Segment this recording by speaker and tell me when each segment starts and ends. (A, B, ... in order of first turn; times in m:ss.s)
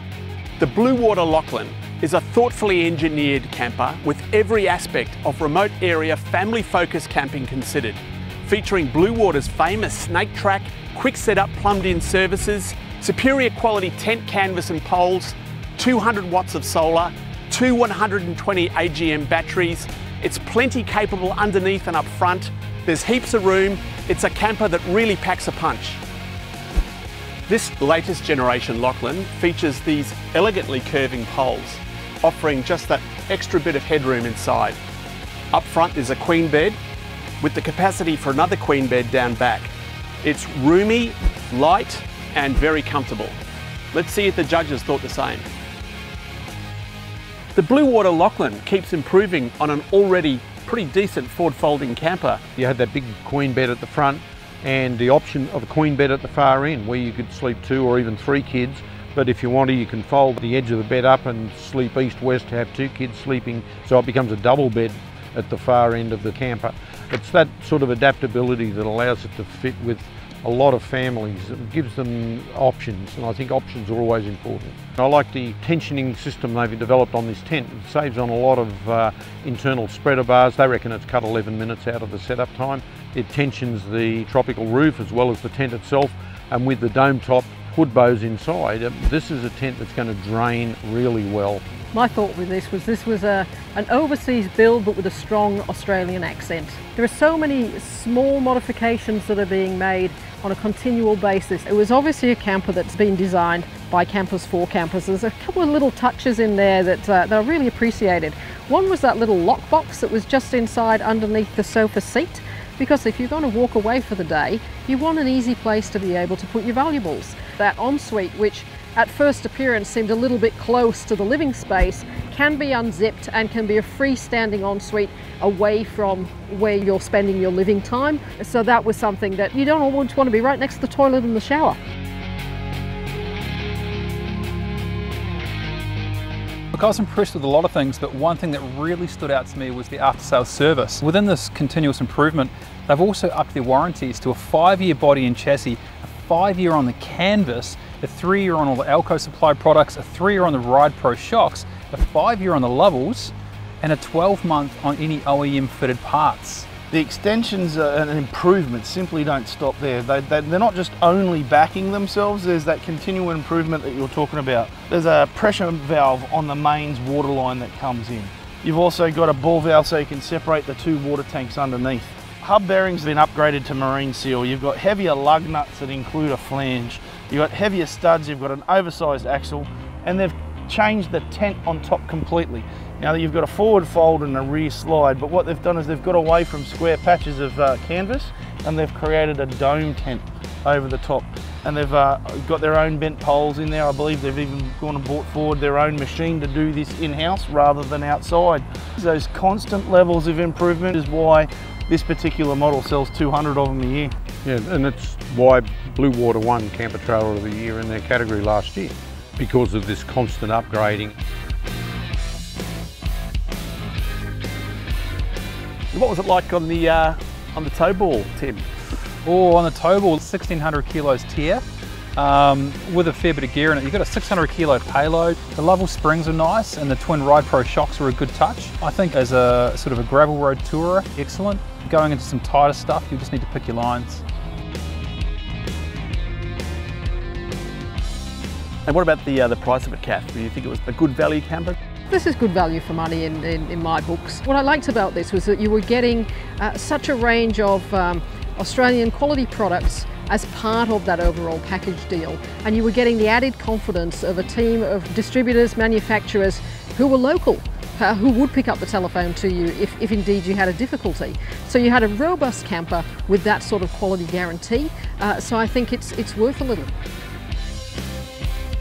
0:00.6-0:26.0 A
0:27.5-0:34.8 A
0:35.5-0:36.8 A
0:37.4-0:39.7 A
0:40.2-0:43.3 A
0:43.9-0:45.4 A
0:47.5-0:52.4 A
0:52.6-1:31.6 B
1:31.9-2:11.8 C
2:16.7-2:36.7 D
2:36.9-3:24.1 E
3:24.4-3:31.1 B
3:35.9-3:38.6 A
3:39.2-3:41.6 D
3:42.2-3:54.2 D
3:58.8-4:01.7 A
4:02.1-4:26.9 C